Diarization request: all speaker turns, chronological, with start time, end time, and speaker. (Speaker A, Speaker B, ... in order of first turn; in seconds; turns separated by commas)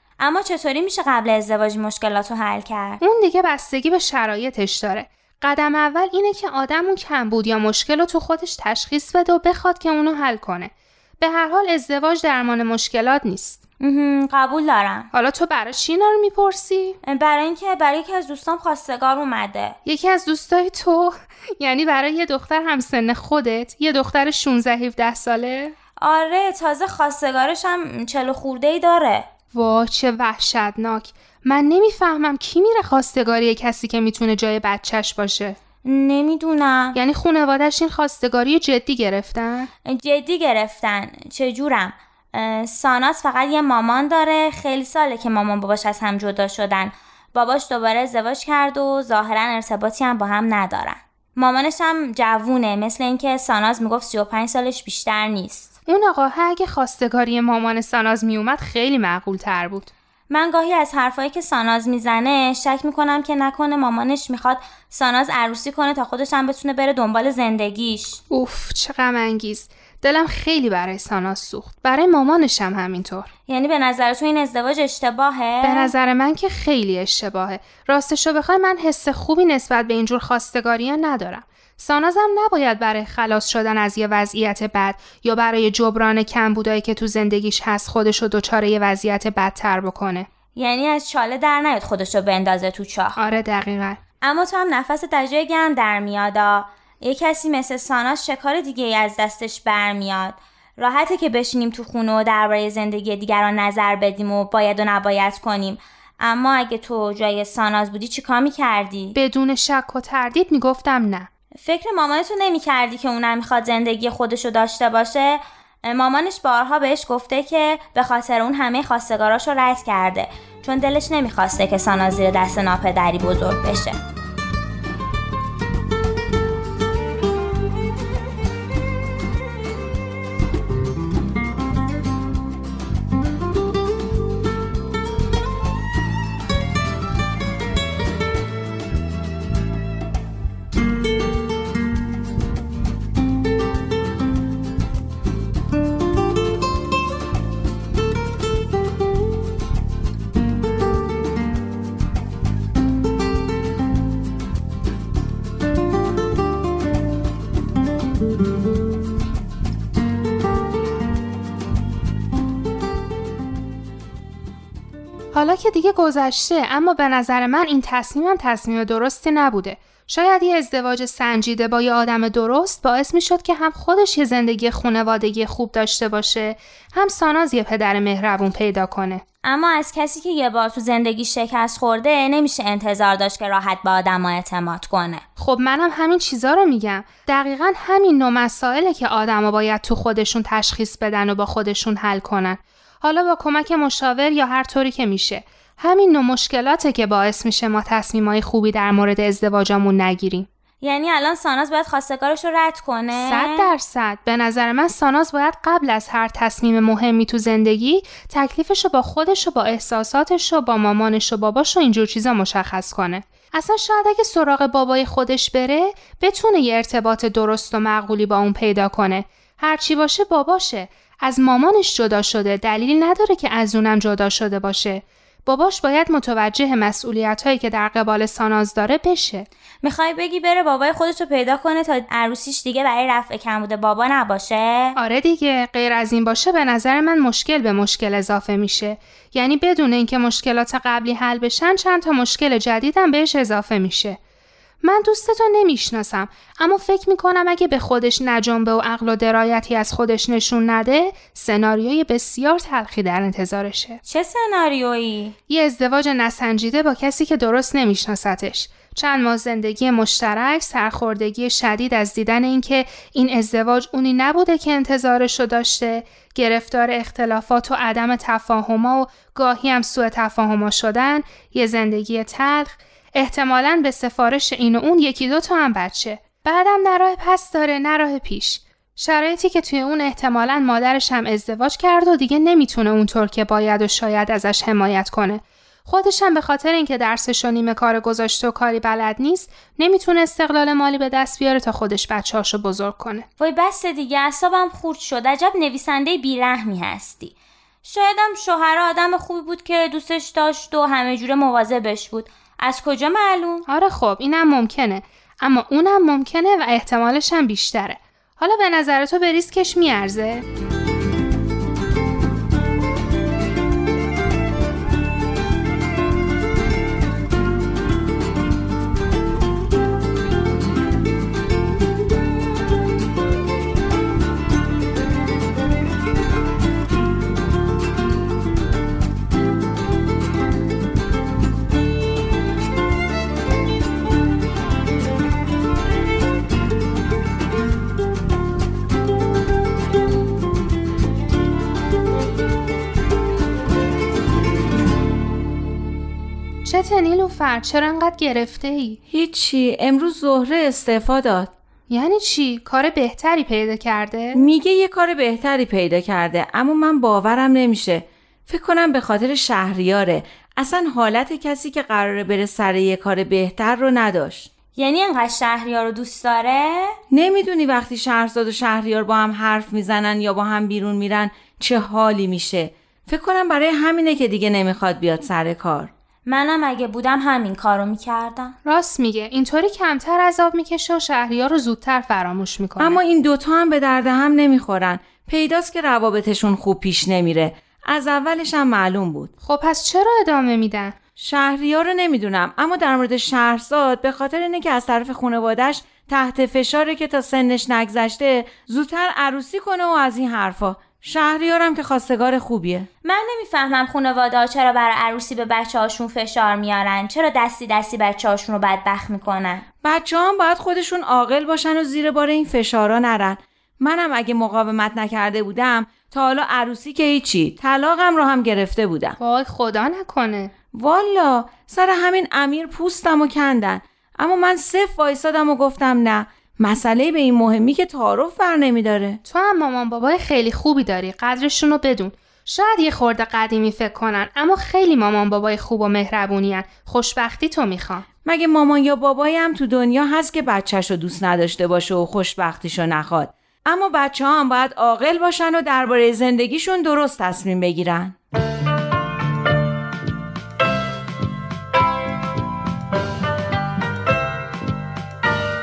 Speaker A: 0.2-3.0, Speaker B: 3.0-13.6, Speaker A: 13.8-15.1, Speaker B: 15.1-17.0, Speaker A: 17.0-19.8, Speaker B: 19.9-25.8, Speaker A: 26.0-29.3, Speaker B: 29.5-35.6, Speaker A: 35.9-37.0, Speaker B: 37.0-39.7, Speaker A: 39.9-55.7, Speaker B: 55.9-59.9, Speaker A: 60.3-68.2, Speaker B: 68.3-73.3, Speaker A: 73.5-75.9, Speaker B: 75.6-90.3, Speaker A: 90.6-93.2, Speaker B: 93.2-94.0, Speaker A: 94.2-109.2, Speaker B: 109.2-111.3, Speaker A: 111.6-124.0, Speaker B: 165.3-179.2, Speaker A: 179.4-185.2, Speaker B: 185.4-200.5, Speaker A: 200.8-203.7, Speaker B: 203.2-229.5, Speaker A: 229.8-235.0, Speaker B: 235.0-244.2, Speaker B: 244.8-254.0, Speaker A: 254.1-255.3, Speaker B: 255.5-293.3, Speaker A: 293.4-303.6, Speaker B: 303.7-310.4, Speaker B: 346.6-349.0, Speaker C: 349.1-351.5, Speaker B: 351.9-354.4, Speaker C: 354.4-364.5, Speaker A: 364.8-367.0, Speaker C: 367.1-375.9, Speaker A: 376.3-378.6, Speaker B: 378.7-383.0, Speaker C: 382.8-389.3, Speaker B: 389.4-391.0, Speaker C: 391.2-402.9, Speaker A: 403.0-409.7, Speaker C: 409.8-419.2, Speaker B: 419.2-420.5, Speaker C: 420.7-429.2, Speaker B: 429.3-438.1, Speaker C: 438.2-448.1